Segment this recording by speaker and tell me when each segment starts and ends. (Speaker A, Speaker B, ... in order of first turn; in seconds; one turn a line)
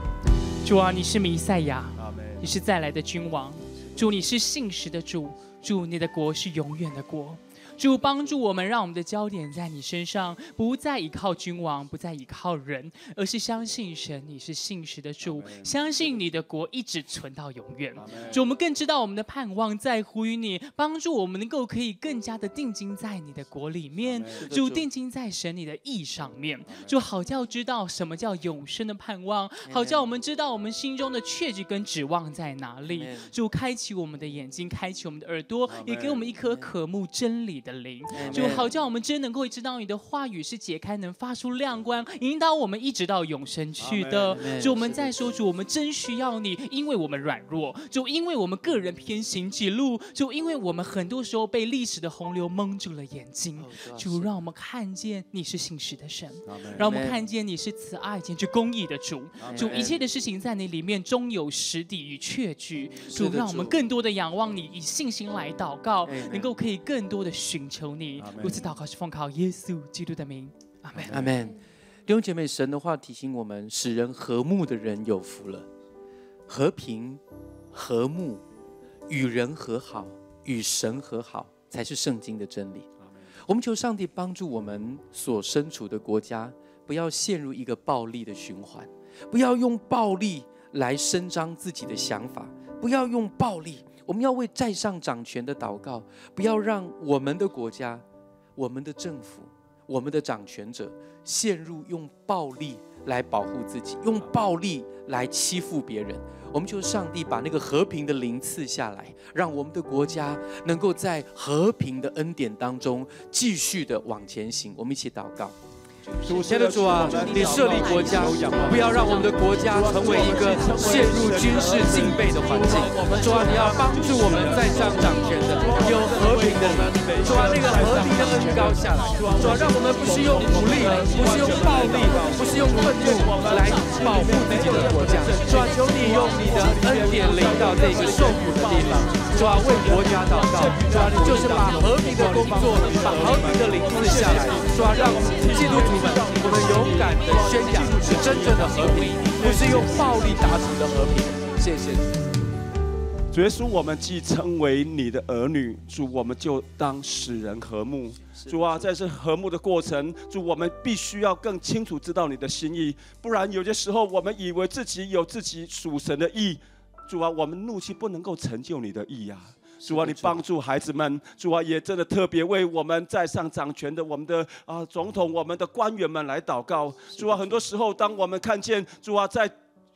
Speaker A: 0.6-71.3
Speaker B: 24.3-24.9
Speaker B: 29.7-30.1
Speaker B: 32.9-33.3
Speaker B: 36.5-36.7
Speaker B: 38.1-38.7
Speaker B: 44.3-45.1
Speaker B: 53.6-54.3
Speaker B: 56.7-57.2
Speaker B: 59.5-60.0
Speaker B: 63.1-63.8
Speaker B: 66.0-66.5
Speaker B: 71.1-75.7
Speaker B: 76.5-77.2
Speaker B: 77.7-78.4
Speaker B: 79.1-82.9
Speaker B: 83.5-98.0
Speaker B: 98.6-115.6
Speaker A: 116.1-119.8
Speaker C: 116.3-125.1
Speaker B: 116.4-152.1
Speaker C: 125.6-139.0
Speaker C: 139.7-150.0
Speaker C: 153.3-179.5
Speaker B: 169.8-170.5
Speaker B: 177.2-177.5